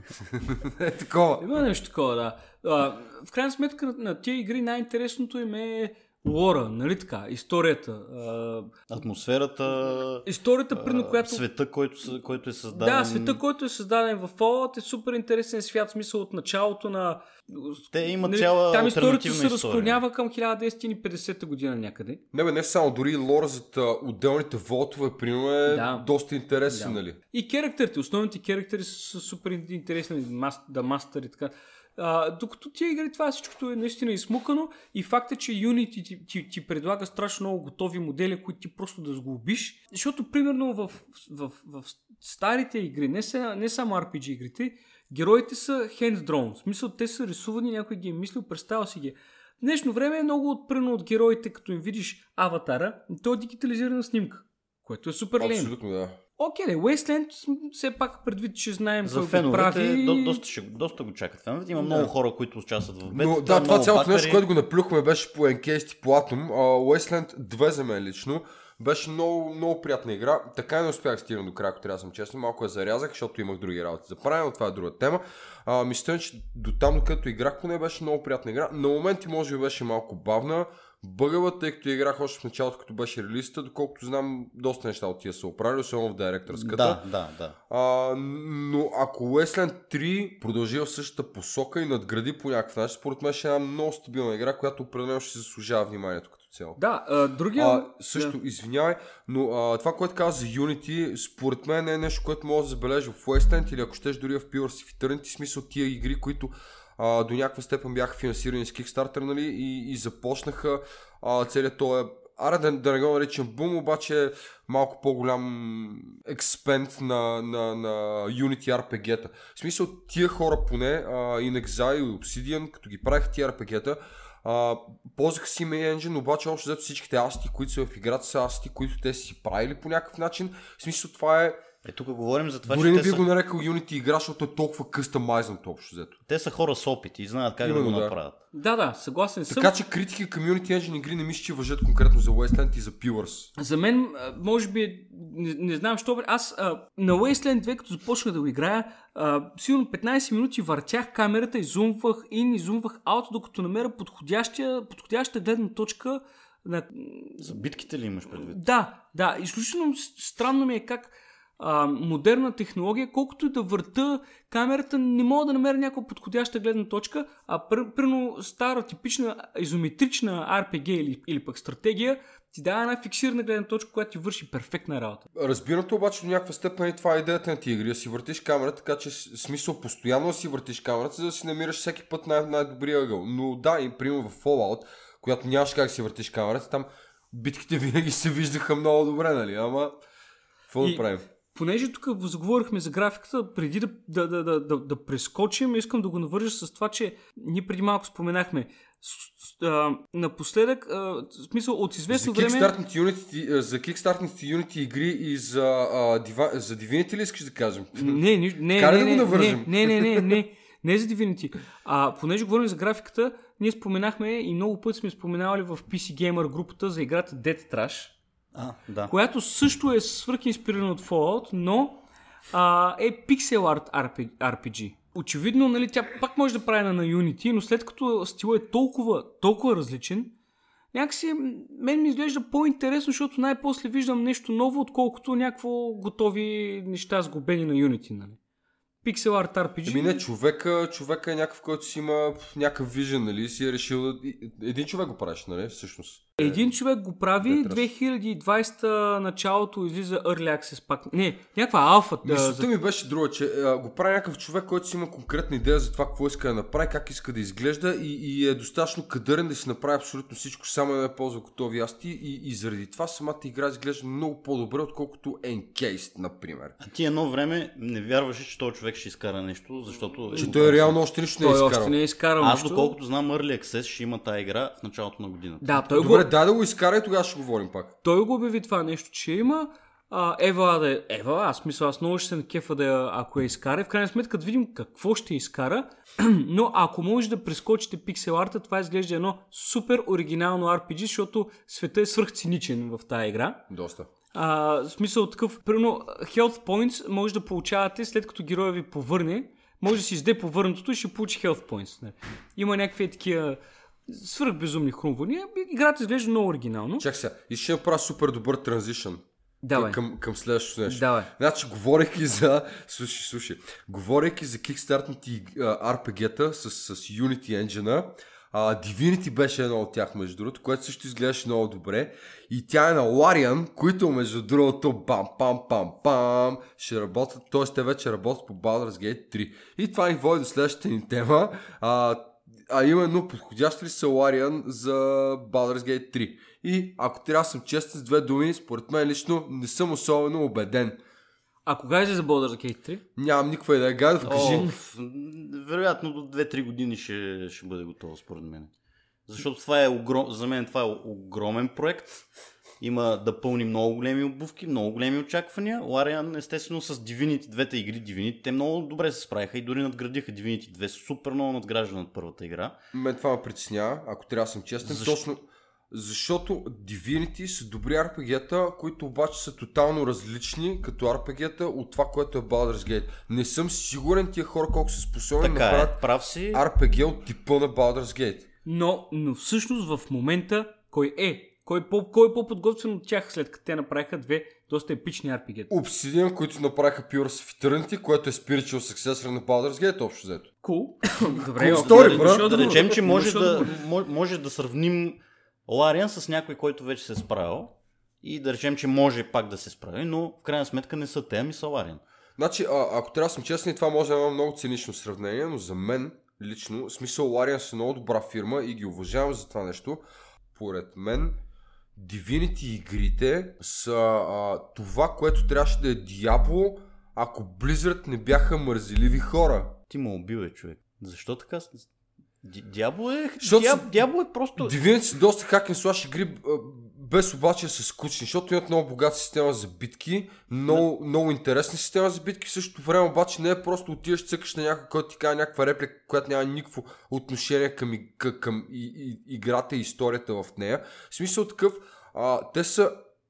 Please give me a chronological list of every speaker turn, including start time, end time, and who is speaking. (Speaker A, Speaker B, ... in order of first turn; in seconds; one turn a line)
Speaker A: 0.2-1.4
Speaker B: 1.4-8.7
Speaker C: 8.9-13.4
Speaker B: 10.2-11.4
Speaker B: 12.7-22.2
Speaker C: 17.9-20.0
Speaker A: 22.3-27.2
Speaker B: 25.7-26.1
Speaker B: 26.7-55.7
Speaker A: 55.4-56.2
Speaker B: 56.4-60.4
Speaker C: 59.0-64.4
Speaker A: 61.9-62.1
Speaker A: 63.1-87.0
Speaker C: 86.5-87.5
Speaker A: 87.7-96.8
Speaker B: 96.8-98.4
Speaker A: 97.5-131.6
Speaker C: 131.8-133.2
Speaker A: 132.7-136.1
Speaker C: 136.3-138.4
Speaker A: 137.6-138.1
Speaker B: 138.5-139.7
Speaker A: 139.5-143.5
Speaker B: 143.6-157.5
Speaker C: 157.4-158.6
Speaker B: 158.4-175.2
Speaker A: 175.3-189.9
Speaker A: 190.7-191.2
Speaker B: 190.8-202.7
Speaker A: 202.1-210.3
Speaker B: 207.9-218.1
Speaker C: 218.5-219.1
Speaker B: 219.1-230.3
Speaker B: 230.9-238.4
Speaker B: 239.0-240.2
Speaker A: 239.8-246.7
Speaker B: 246.4-252.7
Speaker A: 247.4-247.9
Speaker A: 252.2-266.8
Speaker C: 266.8-271.0
Speaker A: 270.4-271.9
Speaker B: 271.4-273.0
Speaker C: 272.4-275.7
Speaker B: 275.6-276.3
Speaker A: 275.9-277.9
Speaker B: 278.0-293.6
Speaker A: 293.7-294.1
Speaker B: 294.3-307.0
Speaker A: 307.0-341.0
Speaker B: 309.6-310.0
Speaker B: 310.9-311.3
Speaker B: 341.6-343.0
Speaker A: 343.1-344.7
Speaker C: 344.2-348.7
Speaker B: 344.3-344.7
Speaker C: 349.3-352.2
Speaker C: 352.8-362.8
Speaker A: 362.9-378.5
Speaker C: 364.8-365.2
Speaker C: 375.4-376.6
Speaker B: 378.6-385.7
Speaker A: 385.7-390.5
Speaker B: 390.6-393.7
Speaker A: 391.4-392.9
Speaker C: 391.7-402.0
Speaker A: 402.4-410.0
Speaker A: 410.5-411.4
Speaker A: 411.9-419.7
Speaker C: 419.9-421.9
Speaker C: 422.4-424.8
Speaker A: 423.4-423.9
Speaker A: 424.6-443.0